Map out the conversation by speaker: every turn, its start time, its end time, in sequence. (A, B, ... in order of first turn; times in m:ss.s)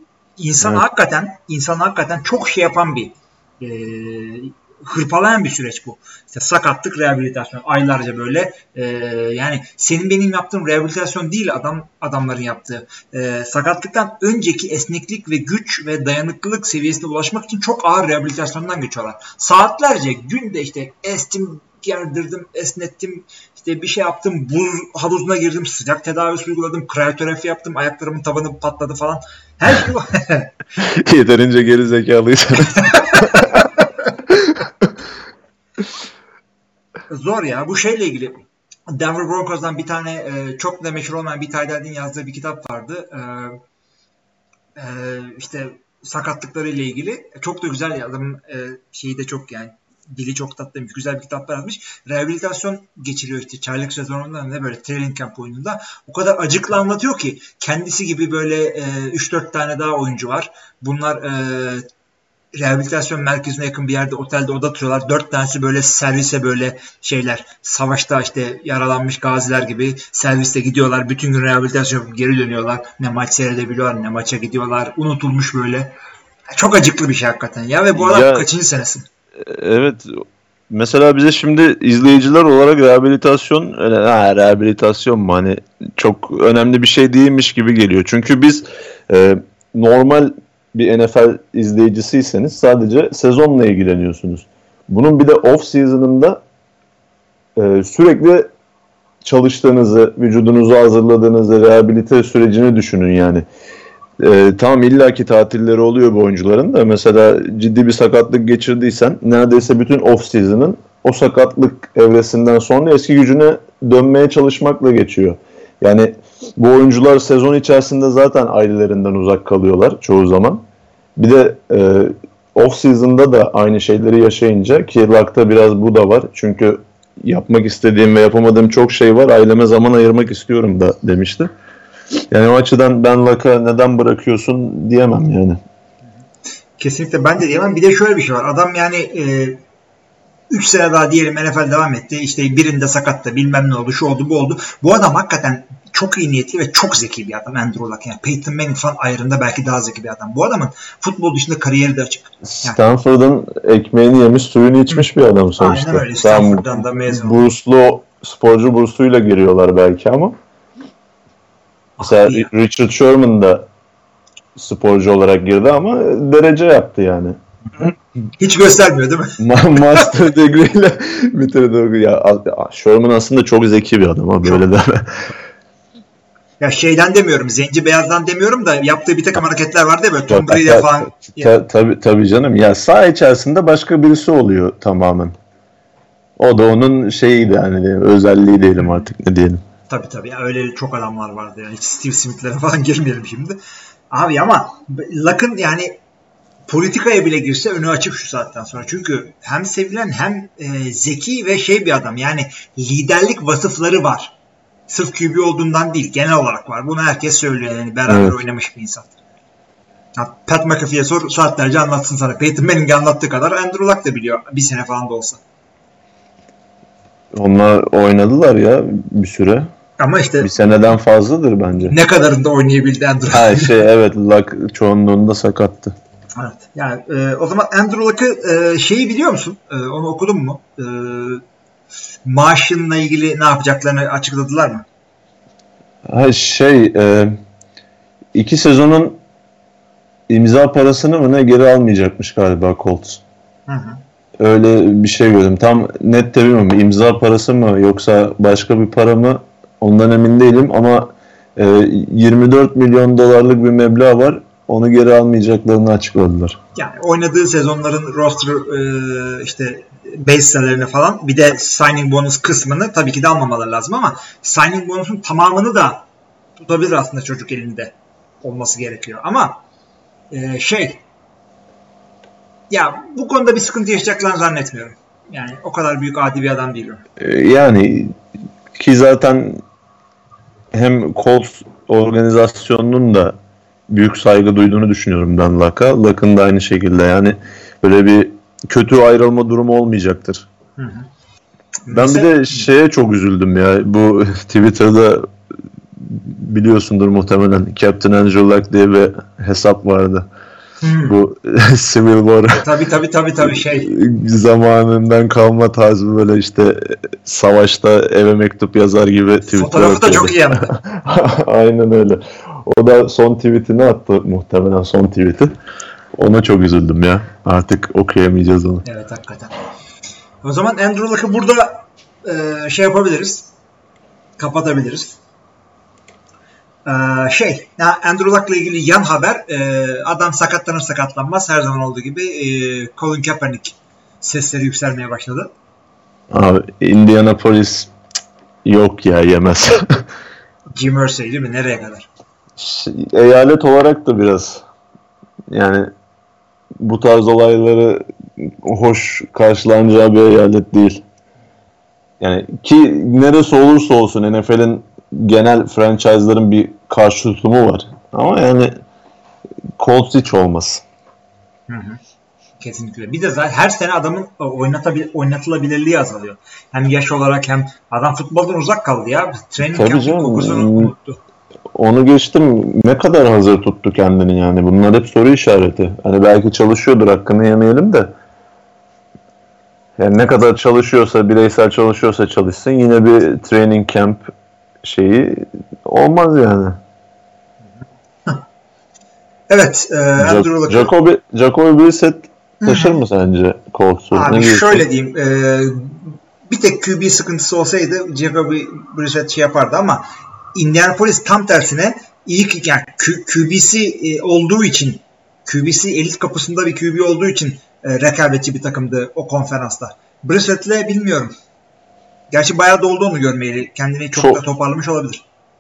0:00.4-0:30.5 A
0:30.8-0:33.7 B
0:32.9-0:33.7 A
0:34.3-0:34.9 B
0:37.1-0:43.6 A
0:44.8-1:01.9 A
1:02.6-1:15.9 A
1:16.5-1:19.0 A
1:18.0-1:18.5 B
1:19.4-1:36.4 B
1:37.6-1:38.5 B
1:39.2-1:43.4 B
1:44.2-2:00.6 B
2:01.2-2:11.5 B
2:12.3-2:15.6 B
2:16.8-2:19.6 A
2:20.5-2:32.8 A
2:32.4-2:40.4 B
2:35.6-2:37.4 A
2:42.0-2:42.5 A
2:42.0-2:43.7 B
2:44.6-2:47.4 B
2:48.4-2:50.1 A
2:49.4-2:55.3 B
2:56.6-3:01.6 A
3:00.3-3:05.4 B
3:06.4-3:09.6 B
3:09.9-3:13.6 A
3:14.1-3:16.0 A
3:16.7-3:24.4 A
3:24.9-3:29.1 A
3:28.1-3:28.4 B
3:30.2-3:35.4 A
3:37.3-3:39.7 B
3:40.0-3:40.5 A
3:40.4-3:42.0 B
3:41.9-3:43.7 A
3:43.3-3:46.0 B
3:46.4-3:51.4 A
3:52.2-3:54.8 A
3:56.1-3:57.4 B
3:58.3-3:59.2 B
4:00.3-4:03.2 B
4:03.7-4:04.0 A
4:04.4-4:16.6 B
4:16.8-4:26.1 A
4:26.6-4:29.6 A
4:30.3-4:31.0 A
4:32.7-4:37.0 A
4:37.2-4:38.2 B
4:38.8-4:39.6 B
4:40.7-4:43.3 B
4:43.9-4:50.5 B
4:50.8-4:51.1 A
4:51.9-4:52.7 A
4:51.9-4:55.3 B
4:56.0-5:00.3 B
5:00.8-5:01.2 A
5:01.1-5:02.6 B
5:02.6-5:04.0 A
5:03.8-5:15.5 B
5:09.5-5:10.7 A
5:16.2-5:18.8 B
5:18.8-5:19.6 A
5:20.4-5:23.5 A
5:24.4-5:25.2 A
5:26.8-5:35.5 A
5:36.3-5:37.9 B
5:38.6-5:40.0 B
5:40.8-5:42.1 A
5:42.6-5:44.6 B
5:45.5-5:45.9 B
5:46.8-5:51.0 B
5:52.2-5:58.8 B
5:59.8-6:00.8 B
6:01.7-6:02.0 A
6:02.6-6:11.2 A
6:09.7-6:10.9 B
6:11.7-6:18.1 B
6:20.0-6:24.3 B
6:24.8-6:26.8 B
6:29.5-6:30.9 A
6:30.2-6:34.8 B
6:32.6-6:33.0 A
6:34.1-6:51.3 A
6:52.3-6:55.2 A